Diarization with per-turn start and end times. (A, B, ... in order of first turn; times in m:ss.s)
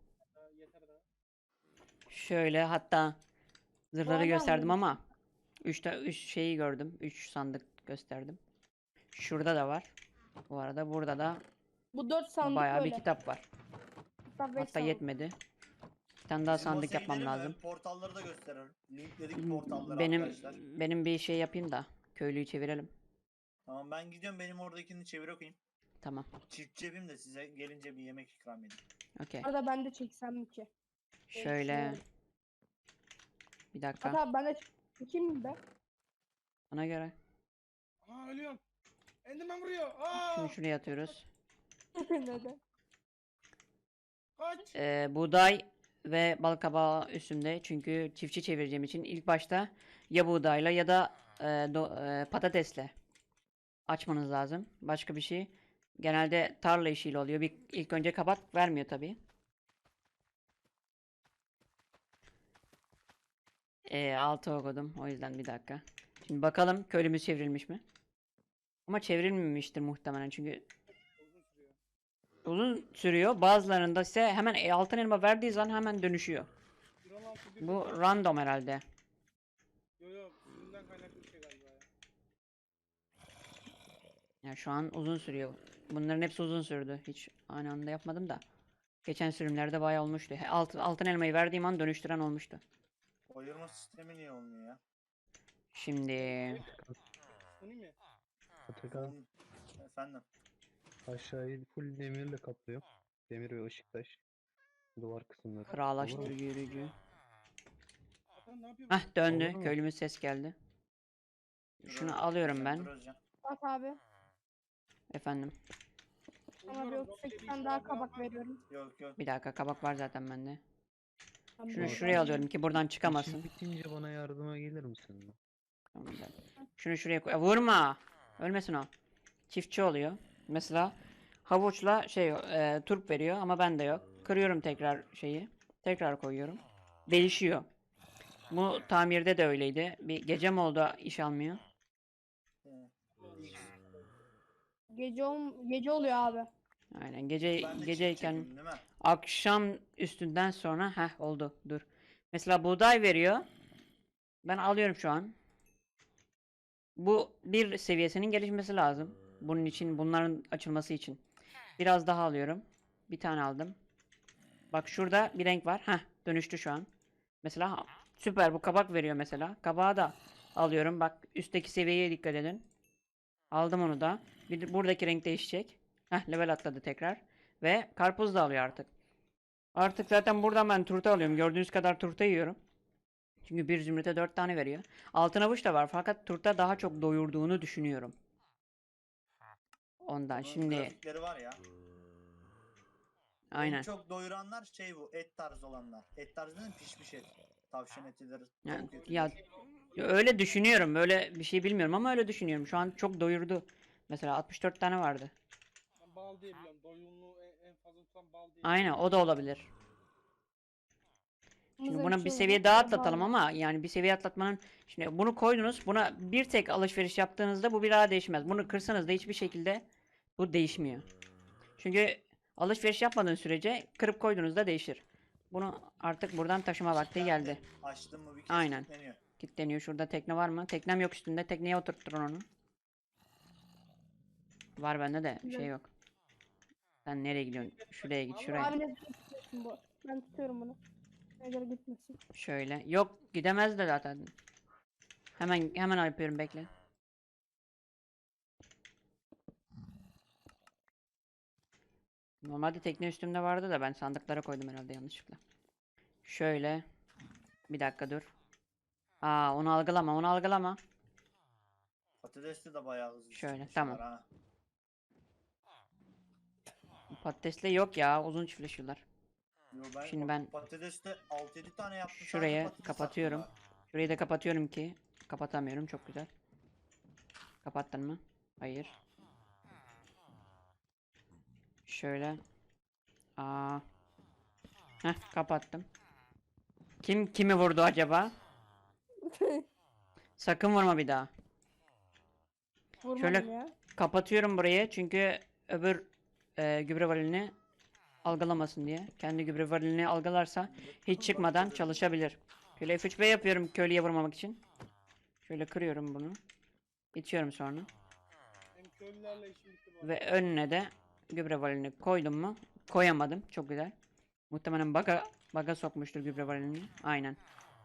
0:00.3-0:01.0 A
0:02.1-0:03.2 B
0:03.9-0:05.0 B
0:04.0-0:04.8 C
0:05.6-0:08.4 B
0:09.1-0:09.9 B
0:10.5-0:11.4 B
0:11.9-0:13.0 C
0:12.4-0:13.4 B
0:14.3-0:15.0 C
0:14.6-0:15.4 B
0:16.3-0:17.6 B
0:16.4-0:20.6 D
0:19.4-0:22.9 B
0:23.6-0:25.6 D
0:26.0-0:26.3 B
0:26.5-0:28.8 D
0:29.2-0:29.5 B
0:29.4-0:30.7 C
0:31.3-0:32.0 B
0:31.4-0:32.0 C
0:33.7-0:34.2 B
0:34.0-0:35.6 C
0:36.7-0:37.1 B
0:38.0-0:38.6 A
0:39.2-0:40.6 A
0:40.2-0:41.2 B
0:41.9-0:42.6 C
0:44.4-0:44.7 A
0:44.7-0:52.9 B
0:53.9-0:59.2 B
1:03.9-1:07.8 B
1:08.9-1:10.6 B
1:10.9-1:11.8 A
1:12.4-1:16.5 B
1:17.0-1:18.1 A
1:17.6-1:18.8 B
1:20.0-1:21.9 A
1:24.4-1:28.4 B
1:29.0-1:32.6 B
1:33.3-1:34.8 D
1:35.7-1:36.6 B
1:36.3-1:36.6 A
1:36.6-1:37.0 E
1:37.6-1:37.9 A
1:38.7-1:39.1 E
1:38.9-1:40.2 D
1:41.1-1:44.2 E
1:45.0-1:46.3 E
1:45.7-1:46.9 B
1:46.3-1:46.9 A
1:48.4-1:49.1 A
1:48.9-1:50.5 B
1:49.2-1:49.8 E
1:51.8-1:52.9 B
1:51.8-1:53.2 D
1:53.4-1:54.0 C
1:55.1-1:55.5 B
1:56.6-1:58.4 A
1:56.7-1:58.6 C
1:58.7-1:59.2 D
1:59.2-2:00.6 B
2:01.6-2:02.5 C
2:01.7-2:03.5 B
2:01.8-2:02.4 E
2:03.0-2:05.4 E
2:05.9-2:08.9 B
2:09.5-2:17.6 B
2:18.5-2:21.6 B
2:22.6-2:23.7 D
2:23.2-2:23.6 A
2:24.9-2:26.5 C
2:26.9-2:28.5 B
2:27.6-2:28.8 D
2:29.0-2:33.5 B
2:34.4-2:35.3 B
2:37.0-2:41.2 B
2:41.8-2:43.8 B
2:44.7-2:46.9 B
2:47.4-2:52.6 B
2:53.5-2:58.9 B
2:59.7-3:02.6 B
3:03.4-3:08.1 B
3:10.0-3:10.9 B
3:10.4-3:11.6 D
3:13.5-3:13.9 B
3:13.5-3:19.4 D
3:18.6-3:19.4 B
3:18.7-3:20.4 A
3:19.9-3:25.3 B
3:26.0-3:28.8 A
3:28.6-3:29.7 B
3:31.8-3:33.3 C
3:31.8-3:39.8 B
3:40.4-3:41.0 B
3:41.8-3:47.6 B
3:47.1-3:49.2 D
3:48.5-3:52.4 B
3:54.8-3:55.9 B
3:55.4-3:55.7 C
3:57.0-3:58.8 B
3:57.8-3:58.8 A
3:58.5-4:00.8 C
4:01.4-4:02.2 C
4:02.3-4:04.3 B
4:05.4-4:06.7 B
4:12.4-4:15.4 B
4:16.2-4:16.8 B
4:17.7-4:18.3 B
4:19.2-4:20.8 B
4:22.2-4:24.2 D
4:23.3-4:24.0 B
4:27.1-4:29.0 B
4:29.7-4:33.5 D
4:30.0-4:30.5 B
4:32.1-4:36.3 B
4:37.6-4:38.9 B
4:41.8-4:42.4 B
4:43.4-4:43.8 B
4:45.0-4:45.8 B
4:47.0-4:48.3 B
4:49.2-4:49.6 C
4:50.4-4:51.3 B
4:53.0-4:53.7 C
4:53.2-4:57.5 B
4:58.2-5:04.6 B
5:00.7-5:02.1 D
5:05.4-5:06.4 B
5:07.1-5:07.9 B
5:08.7-5:10.2 A
5:10.0-5:13.9 B
5:14.5-5:17.4 B